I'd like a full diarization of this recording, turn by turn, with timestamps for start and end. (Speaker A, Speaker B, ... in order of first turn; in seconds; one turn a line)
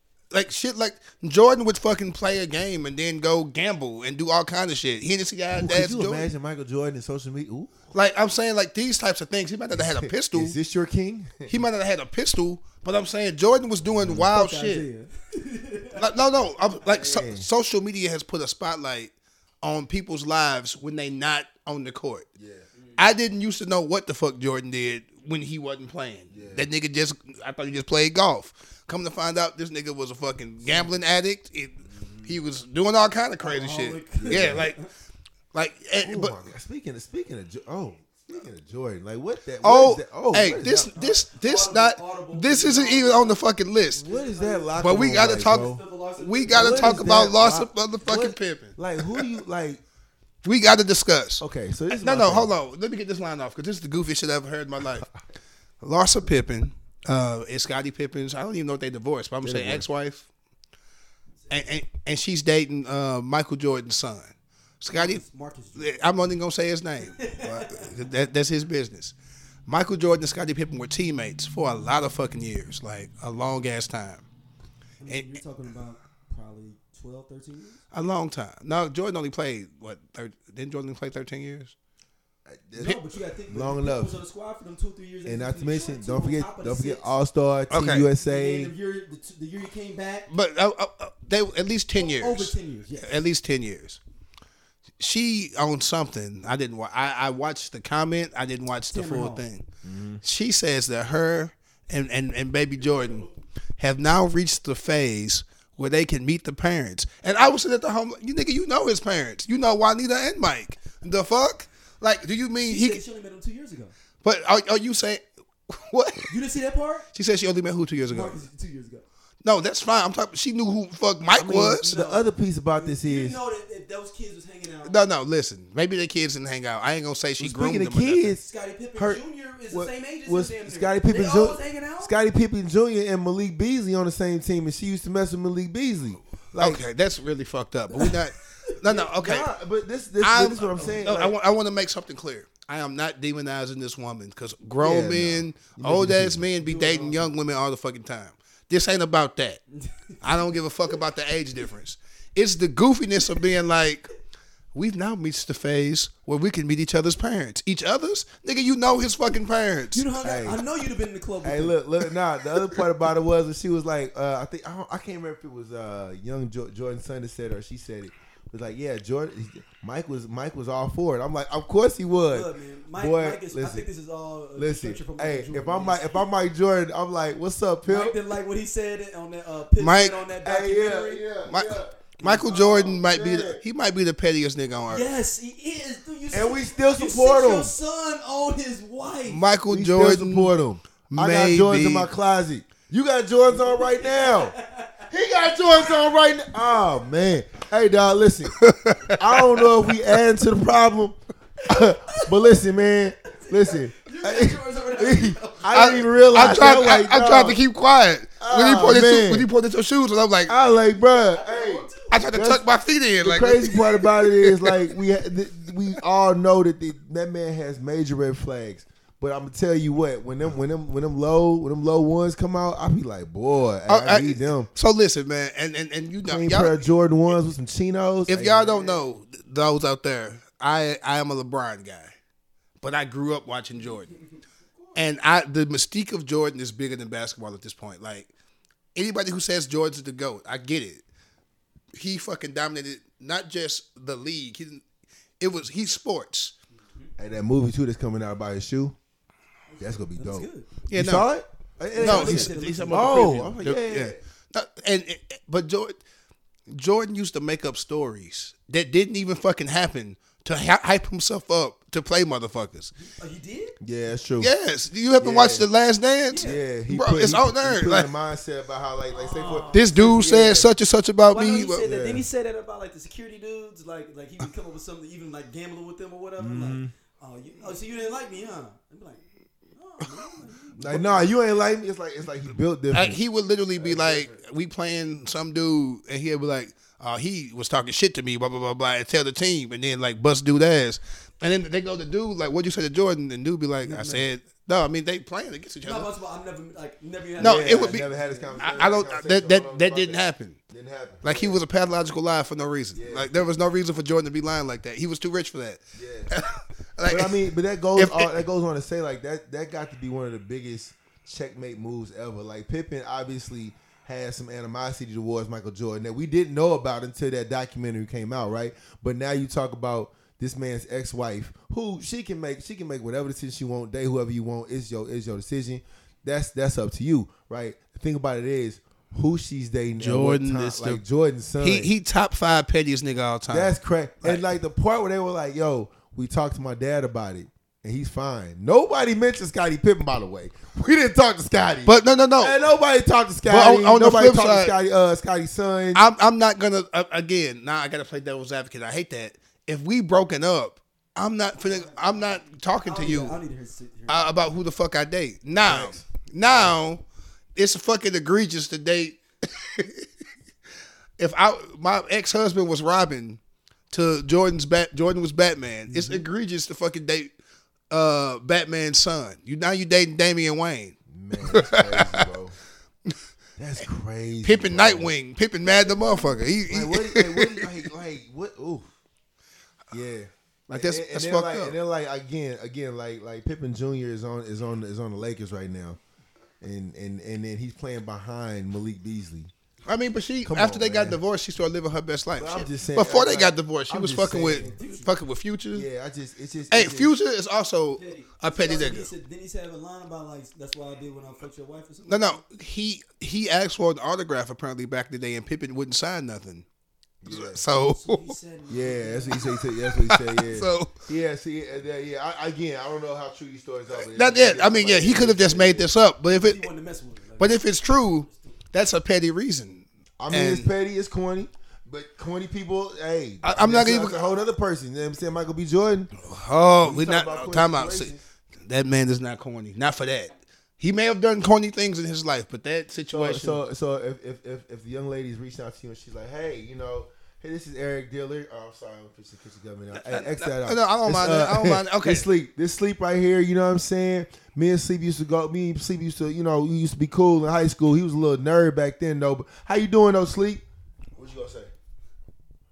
Speaker A: 0.3-6.3
Speaker B: 5.5-7.7
Speaker A: 7.9-10.6
Speaker B: 9.7-11.5
Speaker A: 11.5-14.8
Speaker B: 13.9-14.3
Speaker C: 14.2-16.1
Speaker A: 15.9-22.3
Speaker B: 16.9-17.5
Speaker B: 22.4-22.6
Speaker A: 23.0-34.8
Speaker B: 26.3-26.7
Speaker B: 31.9-32.3
Speaker C: 33.4-34.9
Speaker B: 34.1-34.7
Speaker A: 35.5-36.4
Speaker B: 36.0-40.9
Speaker A: 39.6-44.0
Speaker C: 40.9-43.4
Speaker B: 43.9-45.8
Speaker C: 44.0-47.3
Speaker A: 44.8-49.3
Speaker B: 46.5-49.8
Speaker A: 50.4-55.1
Speaker B: 51.4-52.5
Speaker A: 55.8-60.2
Speaker B: 59.4-59.8
Speaker A: 61.5-65.2
Speaker C: 64.9-66.0
Speaker A: 65.8-69.1
Speaker C: 67.0-67.9
Speaker A: 69.7-74.2
Speaker C: 75.0-77.8
Speaker A: 75.1-75.3
Speaker A: 77.9-81.7
Speaker B: 82.5-84.2
Speaker C: 82.7-87.1
Speaker B: 85.2-88.7
Speaker A: 87.7-88.1
Speaker C: 88.2-90.3
Speaker A: 90.3-94.0
Speaker C: 91.9-93.2
Speaker A: 95.0-99.6
Speaker C: 98.9-99.4
Speaker B: 99.8-100.2
Speaker A: 100.2-103.2
Speaker A: 103.8-113.0
Speaker C: 112.6-113.9
Speaker A: 114.2-116.3
Speaker C: 116.3-117.1
Speaker A: 117.1-118.4
Speaker C: 118.1-119.0
Speaker A: 119.4-121.9
Speaker B: 121.3-123.4
Speaker C: 121.8-125.0
Speaker A: 124.8-128.3
Speaker B: 127.4-128.4
Speaker C: 128.4-132.1
Speaker B: 128.9-136.8
Speaker A: 136.5-139.5
Speaker B: 138.8-141.3
Speaker A: 140.2-149.6
Speaker B: 144.8-146.5
Speaker C: 146.6-147.3
Speaker C: 149.7-150.2
Speaker A: 150.2-154.1
Speaker A: 154.7-160.0
Speaker C: 159.9-161.8
Speaker B: 160.2-160.6
Speaker B: 161.4-173.9
Speaker C: 172.3-176.2
Speaker B: 174.6-178.2
Speaker C: 177.9-181.2
Speaker A: 179.8-180.3
Speaker B: 180.4-183.6
Speaker A: 181.5-185.1
Speaker C: 182.2-182.8
Speaker C: 184.8-189.4
Speaker B: 186.3-187.7
Speaker A: 189.3-190.5
Speaker B: 189.7-194.5
Speaker A: 191.1-192.1
Speaker C: 193.5-195.0
Speaker B: 195.1-198.5
Speaker A: 198.6-199.7
Speaker B: 199.2-207.6
Speaker C: 201.7-202.3
Speaker C: 203.3-206.6
Speaker A: 205.7-210.5
Speaker B: 208.4-209.5
Speaker B: 210.5-212.6
Speaker C: 211.1-212.2
Speaker A: 212.1-214.9
Speaker B: 213.2-224.7
Speaker A: 223.9-226.9
Speaker B: 226.2-229.0
Speaker A: 228.3-232.1
Speaker A: 232.8-234.1
Speaker A: 234.9-238.3
Speaker A: 238.9-241.0
Speaker A: 241.9-244.8
Speaker A: 245.4-246.5
Speaker B: 247.2-248.9
Speaker C: 249.7-250.7
Speaker B: 249.8-254.2
Speaker A: 250.9-251.3
Speaker C: 251.9-253.4
Speaker A: 252.0-256.0
Speaker A: 256.7-262.9
Speaker C: 263.0-263.8
Speaker B: 263.8-264.5
Speaker A: 264.4-268.1
Speaker B: 265.2-265.7
Speaker C: 266.3-266.6
Speaker B: 266.3-270.7
Speaker C: 269.1-270.2
Speaker A: 269.7-271.8
Speaker C: 271.3-281.3
Speaker B: 271.8-272.2
Speaker B: 276.4-276.9
Speaker B: 280.8-283.2
Speaker A: 282.9-296.1
Speaker B: 283.8-284.3
Speaker C: 293.8-294.2
Speaker C: 295.8-298.8
Speaker A: 297.4-300.6
Speaker B: 297.4-301.6
Speaker A: 301.2-307.4
Speaker B: 302.9-303.3
Speaker B: 305.9-306.3
Speaker B: 307.1-331.9
Speaker A: 307.9-308.4
Speaker A: 330.0-331.0
Speaker A: 331.6-334.4
Speaker B: 333.5-346.1
Speaker A: 341.9-342.6
Speaker A: 343.4-344.7
Speaker A: 345.9-353.4
Speaker C: 351.6-354.3
Speaker A: 354.1-357.0
Speaker B: 355.6-356.7
Speaker A: 357.6-360.1
Speaker A: 361.2-363.4
Speaker A: 363.9-367.3
Speaker B: 365.9-366.3
Speaker A: 367.9-372.3
Speaker B: 371.1-372.6
Speaker B: 373.6-375.1
Speaker A: 374.4-377.7
Speaker B: 376.7-378.9
Speaker B: 379.9-386.0
Speaker A: 380.7-381.8
Speaker B: 386.6-389.5
Speaker A: 389.9-395.9
Speaker B: 390.4-391.2
Speaker B: 392.4-394.7
Speaker C: 394.5-395.1
Speaker B: 395.7-397.1
Speaker A: 396.7-399.1
Speaker C: 397.9-402.4
Speaker A: 402.1-406.6
Speaker B: 407.2-407.6
Speaker A: 407.3-408.3
Speaker C: 407.7-409.5
Speaker B: 408.7-415.9
Speaker A: 409.9-410.9
Speaker A: 413.9-416.6
Speaker C: 416.3-417.6
Speaker A: 417.4-420.7
Speaker C: 418.2-418.5
Speaker B: 420.2-426.1
Speaker A: 423.4-424.2
Speaker A: 426.1-433.6
Speaker B: 426.8-428.2
Speaker B: 433.1-450.6
Speaker A: 439.9-442.2
Speaker B: 451.1-451.7